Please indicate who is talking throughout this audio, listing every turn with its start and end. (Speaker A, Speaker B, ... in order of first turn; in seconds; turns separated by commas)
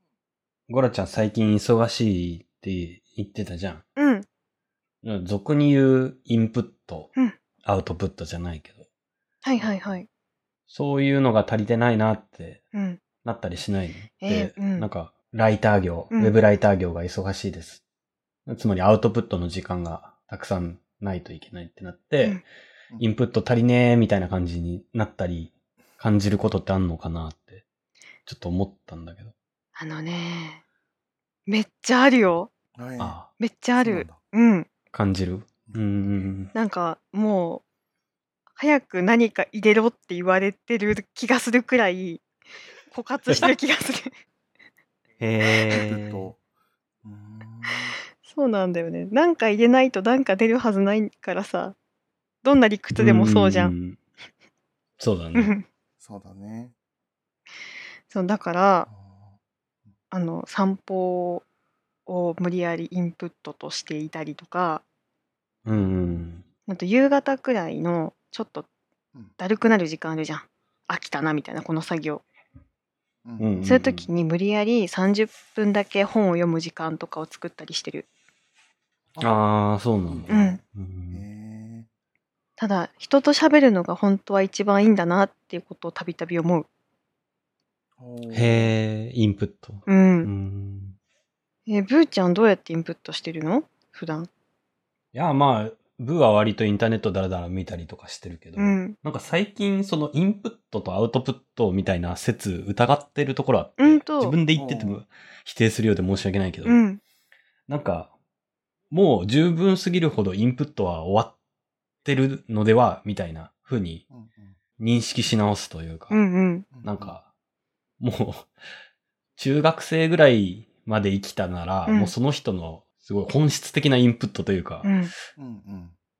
Speaker A: 0.7-3.8, Speaker B: 4.0-4.2, Speaker A: 5.0-7.1, Speaker A: 7.6-8.8, Speaker B: 9.4-10.1, Speaker A: 10.7-12.6, Speaker B: 12.7-13.0, Speaker A: 13.2-17.8, Speaker B: 14.2-14.9, Speaker B: 16.1-16.4, Speaker A: 18.5-22.4, Speaker A: 23.0-27.6, Speaker A: 28.2-29.3, Speaker B: 29.8-30.6, Speaker B: 31.5-32.5, Speaker C: 32.8-33.1, Speaker A: 33.0-33.3, Speaker B: 33.4-34.7, Speaker C: 33.8-34.2, Speaker A: 34.9-36.5, Speaker C: 35.6-36.1, Speaker B: 36.5-37.6, Speaker B: 38.6-42.2, Speaker B: 42.9-44.1, Speaker A: 45.2-46.3, Speaker C: 45.7-46.4, Speaker C: 47.0-48.0, Speaker B: 48.2-51.8, Speaker B: 52.4-53.7, Speaker A: 53.0-54.0, Speaker A: 55.0-55.5, Speaker B: 55.3-55.6, Speaker C: 56.0-56.7, Speaker B: 58.1-58.9, Speaker C: 58.9-59.4, Speaker B: 60.1-61.4, Speaker B: 62.0-64.8, Speaker A: 65.7-66.4, Speaker C: 65.8-66.2, Speaker B: 66.7-68.7, Speaker B: 69.4-72.2, Speaker C: 73.2-73.7, Speaker A: 73.4-74.1, Speaker B: 73.6-78.0, Speaker C: 79.1-79.4, Speaker A: 79.2-81.2, Speaker C: 80.1-81.9, Speaker B: 80.3-80.6, Speaker B: 82.6-86.7, Speaker C: 88.0-88.7, Speaker A: 88.3-91.0, Speaker B: 89.9-90.3, Speaker B: 91.7-94.3, Speaker A: 95.1-106.8, Speaker B: 98.6-99.0, Speaker B: 103.8-104.4, Speaker C: 104.5-105.0, Speaker B: 106.7-107.0, Speaker A: 107.7-108.1, Speaker A: 108.9-111.3, Speaker A: 112.0-114.0, Speaker C: 114.1-114.5, Speaker A: 114.8-116.2, Speaker B: 116.1-116.7, Speaker C: 116.7-117.1, Speaker A: 116.8-117.2, Speaker A: 118.0-118.5, Speaker A: 119.4-125.0, Speaker B: 121.8-122.1, Speaker B: 124.8-125.1, Speaker C: 125.4-125.9